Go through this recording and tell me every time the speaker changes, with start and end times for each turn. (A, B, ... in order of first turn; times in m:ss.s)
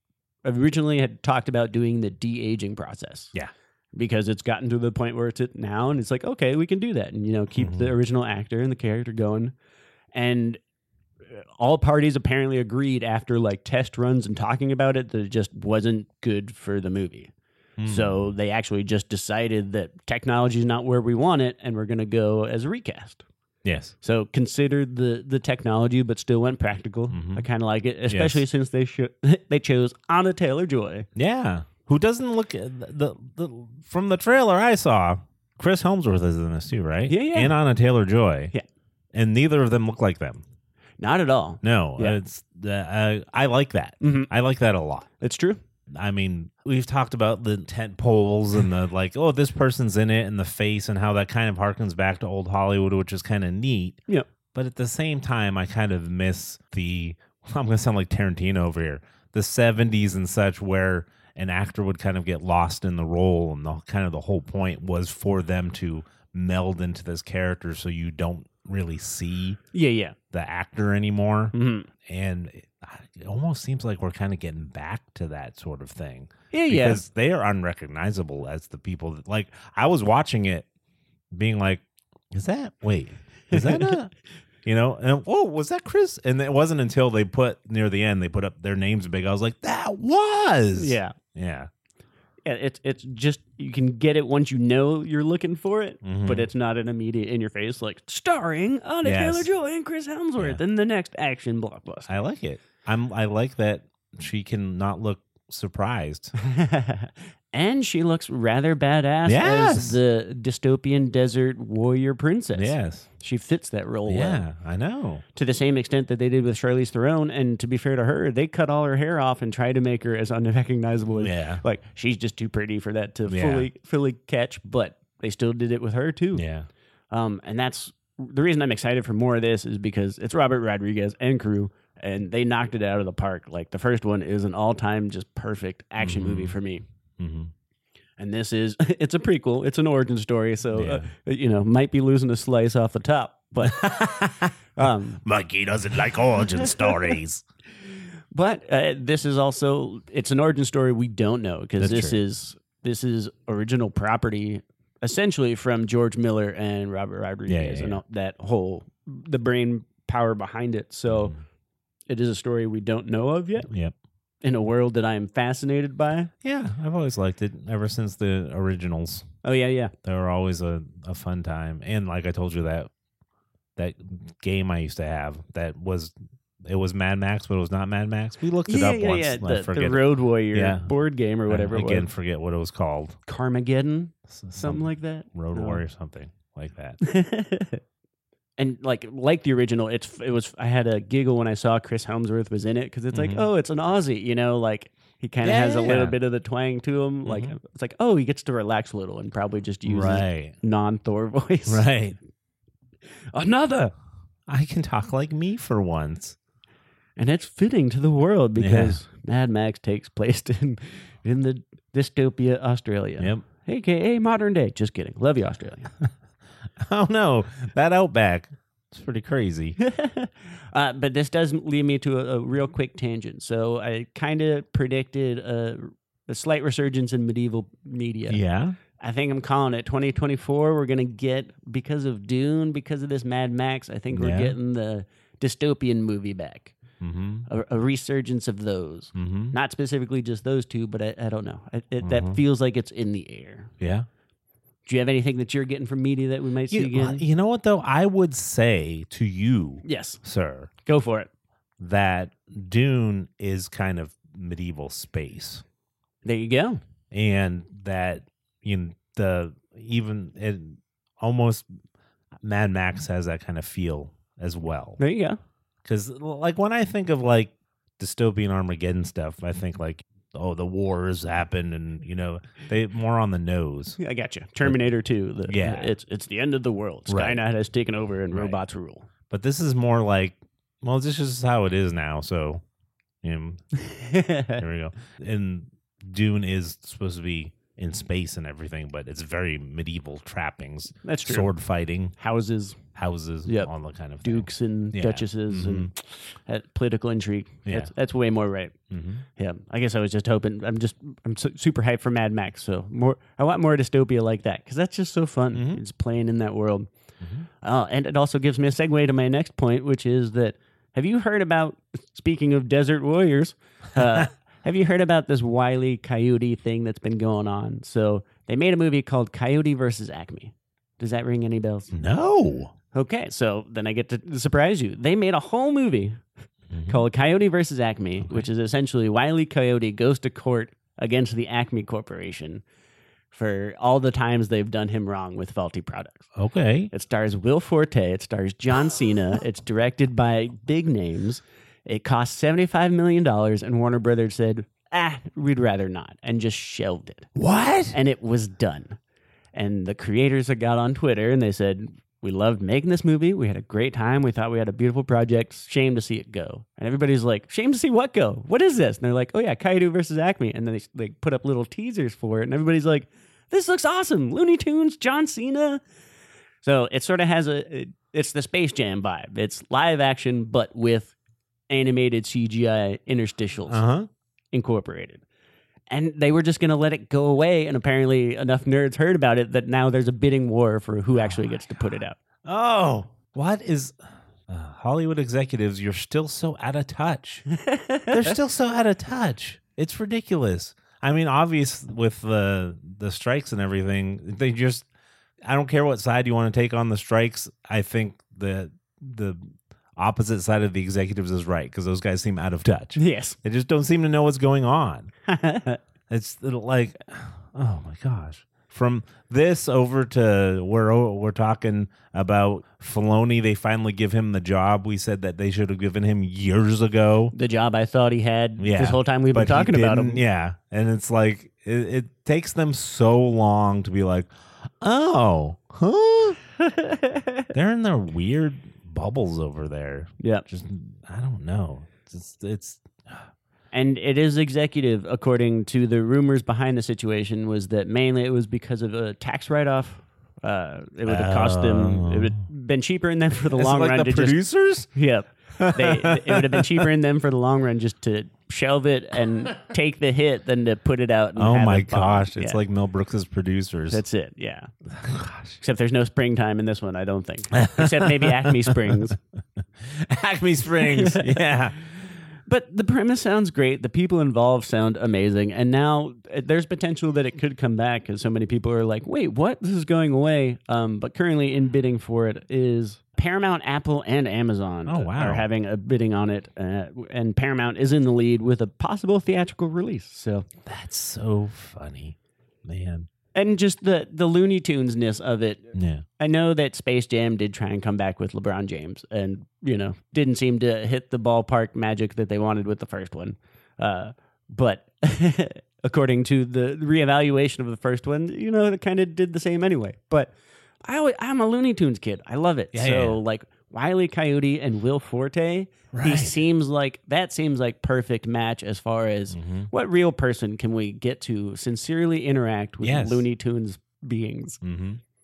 0:00.4-0:03.3 A
0:03.9-0:09.5 A
0:07.6-0:07.9 B
0:10.1-0:10.6 A
0:11.3-0:17.3 A
0:17.8-0:18.2 B
0:17.8-0:23.2 A
0:23.6-0:23.9 B
0:24.0-0:31.1 A
0:27.1-0:27.4 B
0:28.1-0:28.4 B
0:31.2-0:38.5 B
0:37.1-0:37.5 A
0:39.1-0:40.4 B
0:41.0-0:42.2 A
0:41.6-0:45.1 B
0:44.0-0:44.3 A
0:45.2-0:45.6 A
0:45.9-0:54.0 B
0:54.5-1:09.6 B
1:09.7-1:10.2 A
1:10.3-1:20.6 B
1:11.5-1:11.9 A
1:16.5-1:17.0 A
1:21.3-1:24.1 B
1:23.5-1:24.0 A
1:24.6-1:31.7 B
1:30.7-1:31.1 A
1:32.4-1:42.1 A
1:36.0-1:36.5 B
1:39.0-1:39.5 B
1:42.1-1:46.3 B
1:46.4-1:54.4 A
1:49.2-1:50.0 B
1:52.5-1:53.1 B
1:54.1-1:55.2 B
1:55.3-2:06.4 A
2:01.2-2:01.6 B
2:03.3-2:03.7 B
2:06.3-2:06.7 B
2:07.1-2:16.8 A
2:16.0-2:16.6 B
2:17.2-2:17.5 B
2:18.2-2:25.2 A
2:20.7-2:21.1 B
2:23.6-2:27.4 B
2:27.9-2:41.3 A
2:31.8-2:32.2 B
2:37.5-2:38.0 B
2:41.1-2:41.4 B
2:42.1-2:43.7 A
2:43.7-2:43.9 B
2:44.4-2:46.3 A
2:46.4-2:49.3 B
2:49.4-2:49.9 A
2:50.0-2:52.9 B
2:53.8-3:00.9 B
2:58.6-3:02.1 A
3:01.5-3:03.2 B
3:03.2-3:05.8 A
3:04.3-3:07.0 B
3:07.0-3:07.8 A
3:08.6-3:21.8 A
3:13.1-3:13.5 B
3:15.4-3:16.2 B
3:17.2-3:17.6 B
3:19.8-3:20.6 B
3:21.7-3:22.2 B
3:23.3-3:23.9 A
3:24.5-3:26.4 B
3:27.2-3:35.9 A
3:28.6-3:29.0 B
3:33.2-3:33.4 B
3:36.8-3:39.8 B
3:39.8-3:48.4 A
3:48.3-3:48.8 B
3:49.0-3:56.8 A
3:54.1-3:54.5 B
3:57.0-3:57.5 B
3:57.5-4:03.7 A
3:59.1-3:59.5 B
4:02.0-4:02.4 B
4:03.8-4:04.1 B
4:04.8-4:07.2 A
4:06.7-4:10.7 B
4:09.8-4:10.2 A
4:10.8-4:11.3 A
4:11.8-4:15.6 B
4:16.2-4:16.8 A
4:17.1-4:21.7 B
4:22.4-4:25.0 B
4:25.0-4:25.4 A
4:25.8-4:34.0 B
4:34.0-4:39.0 A
4:35.5-4:35.9 B
4:37.1-4:37.4 B
4:38.3-4:38.6 B
4:39.3-4:42.6 B
4:43.2-4:43.6 B
4:43.8-4:44.6 A
4:44.6-4:52.1 B
4:51.0-4:51.5 A
4:52.2-4:52.8 A
4:52.9-4:55.9 B
4:53.4-4:53.7 A
4:54.2-4:58.7 A
4:57.6-4:57.9 B
4:58.9-4:59.2 B
4:59.4-5:06.9 A
5:05.5-5:05.8 B
5:07.6-5:21.9 A
5:14.0-5:14.2 B
5:21.9-5:22.7 B
5:22.9-5:26.2 A
5:26.7-5:27.0 B
5:26.8-5:32.6 A
5:33.3-5:36.3 A
5:36.4-5:36.9 B
5:36.9-5:47.3 A
5:47.3-5:48.0 B
5:47.9-5:49.0 A
5:49.5-6:05.8 A
6:06.6-6:11.1 A
6:11.7-6:13.8 A
6:13.7-6:14.1 B
6:14.5-6:15.2 A
6:15.9-6:22.2 A
6:21.2-6:21.8 B
6:22.4-6:24.0 B
6:24.5-6:27.4 B
6:27.6-6:28.4 A
6:28.1-6:34.8 B
6:35.4-6:45.1 B
6:43.0-6:43.4 A
6:45.3-6:45.8 A
6:46.1-6:57.3 B
6:57.3-7:00.2 A
6:58.6-7:06.4 B
7:06.6-7:07.4 A
7:07.5-7:13.3 B
7:10.2-7:10.4 A
7:13.7-7:24.4 A
7:21.0-7:22.4 B
7:23.5-7:24.9 B
7:24.9-7:32.6 A
7:25.6-7:26.9 B
7:31.4-7:34.0 B
7:33.9-7:34.7 A
7:34.9-7:35.6 B
7:35.6-7:39.2 A
7:37.5-7:39.1 B
7:39.8-7:41.8 B
7:40.8-7:41.4 A
7:42.4-8:00.4 A
7:54.8-7:55.5 B
8:00.6-8:03.1 B
8:03.3-8:20.3 A
8:05.7-8:06.0 B
8:20.8-8:34.6 A
8:22.7-8:23.2 B
8:25.9-8:26.3 B
8:29.3-8:29.7 B
8:32.8-8:33.2 B
8:34.6-8:35.0 B